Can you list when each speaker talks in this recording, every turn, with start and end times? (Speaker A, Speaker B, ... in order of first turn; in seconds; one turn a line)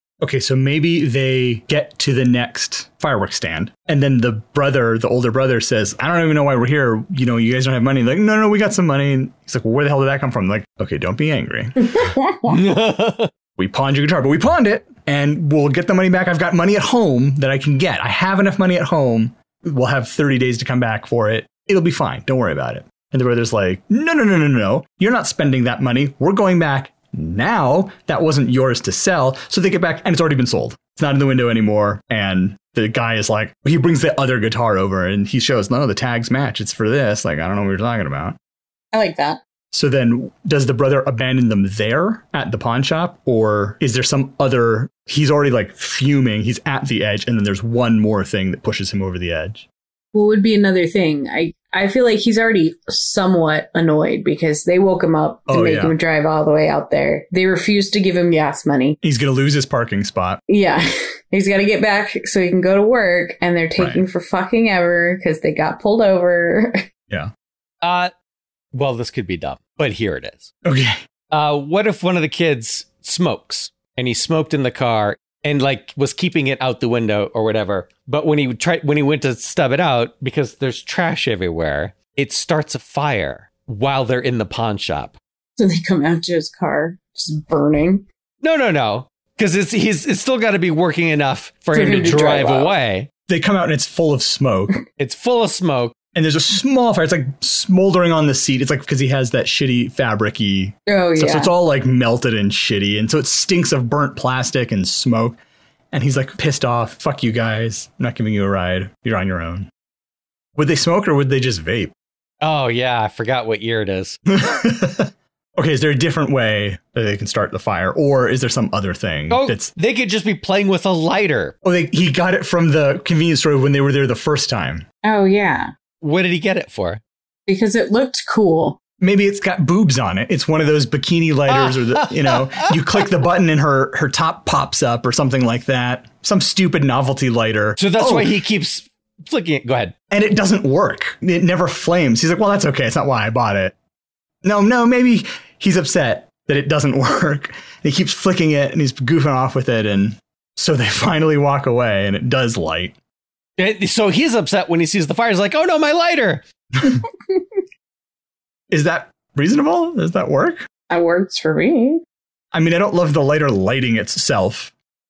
Speaker A: 0.2-12.1
Speaker B: 11.9-12.5
Speaker C: 12.5-13.3
Speaker A: 13.6-38.4
Speaker B: 38.9-39.4
Speaker A: 39.7-49.6
Speaker B: 50.1-59.0
Speaker A: 55.5-56.0
Speaker A: 59.0-60.4
Speaker B: 60.5-66.8
Speaker A: 63.8-64.0
Speaker C: 67.8-68.1
Speaker C: 68.7-70.5
Speaker A: 70.6-71.0
Speaker C: 71.3-85.2
Speaker B: 85.6-88.0
Speaker C: 88.4-93.1
Speaker B: 91.7-92.7
Speaker A: 93.3-94.7
Speaker C: 95.0-95.9
Speaker A: 96.1-105.4
Speaker B: 100.9-101.5
Speaker A: 105.9-109.7
Speaker A: 110.5-111.9
Speaker C: 112.4-114.2
Speaker A: 114.3-119.7
Speaker C: 119.3-121.5
Speaker A: 121.6-124.8
Speaker B: 125.0-125.7
Speaker C: 126.0-127.0
Speaker B: 127.5-128.8
Speaker A: 129.0-138.3
Speaker C: 131.5-132.7
Speaker C: 137.8-139.9
Speaker A: 140.1-143.7
Speaker A: 144.4-152.9
Speaker C: 153.6-156.4
Speaker A: 158.7-160.7
Speaker B: 160.9-162.0
Speaker A: 162.5-164.7